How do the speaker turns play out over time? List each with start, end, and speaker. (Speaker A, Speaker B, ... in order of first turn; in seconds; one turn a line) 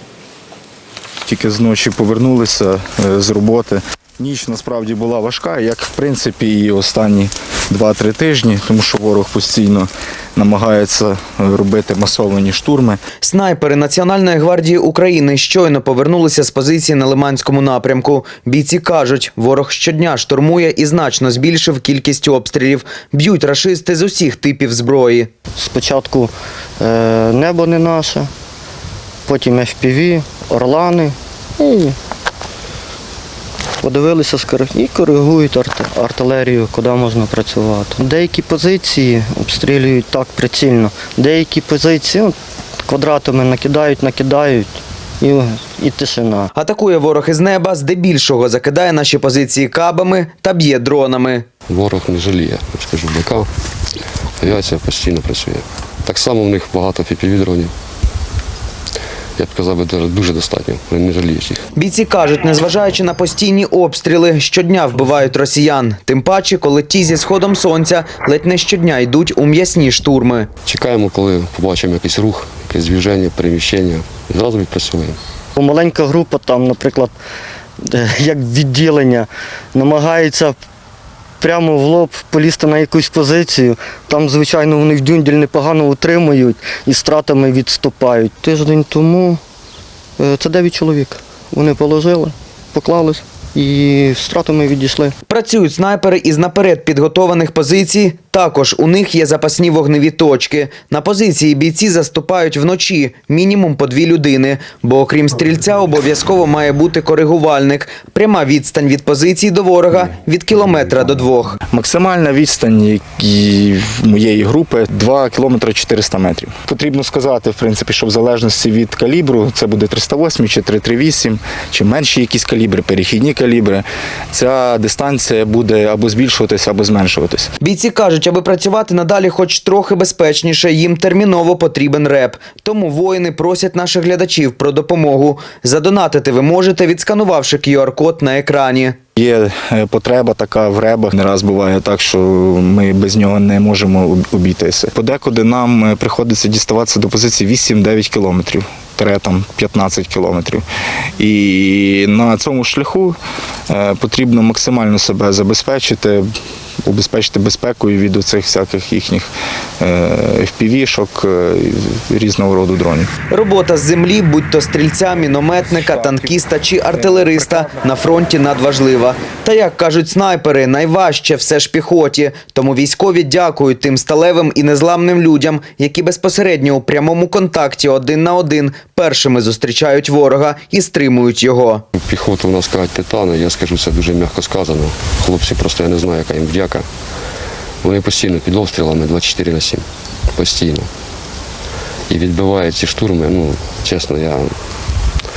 Speaker A: 1.3-13.0
Speaker B: 13.2-25.3
Speaker C: 25.6-28.3
Speaker C: 29.3-32.0
Speaker C: 33.8-46.5
Speaker B: 46.5-51.5
Speaker D: 51.7-53.5
Speaker D: 54.4-57.7
Speaker D: 59.4-61.7
Speaker B: 61.8-70.5
Speaker D: 70.7-75.2
Speaker C: 75.6-77.2
Speaker C: 77.8-80.6
Speaker C: 81.4-89.4
Speaker C: 90.2-95.2
Speaker B: 95.3-111.6
Speaker A: 111.7-127.5
Speaker B: 127.6-139.0
Speaker A: 139.2-150.6
Speaker A: 151.2-156.3
Speaker A: 156.8-163.1
Speaker B: 163.3-181.8
Speaker A: 165.7-166.4
Speaker A: 166.9-167.8
Speaker D: 182.0-186.9
Speaker D: 187.8-189.8
Speaker D: 190.4-190.9
Speaker D: 192.1-194.6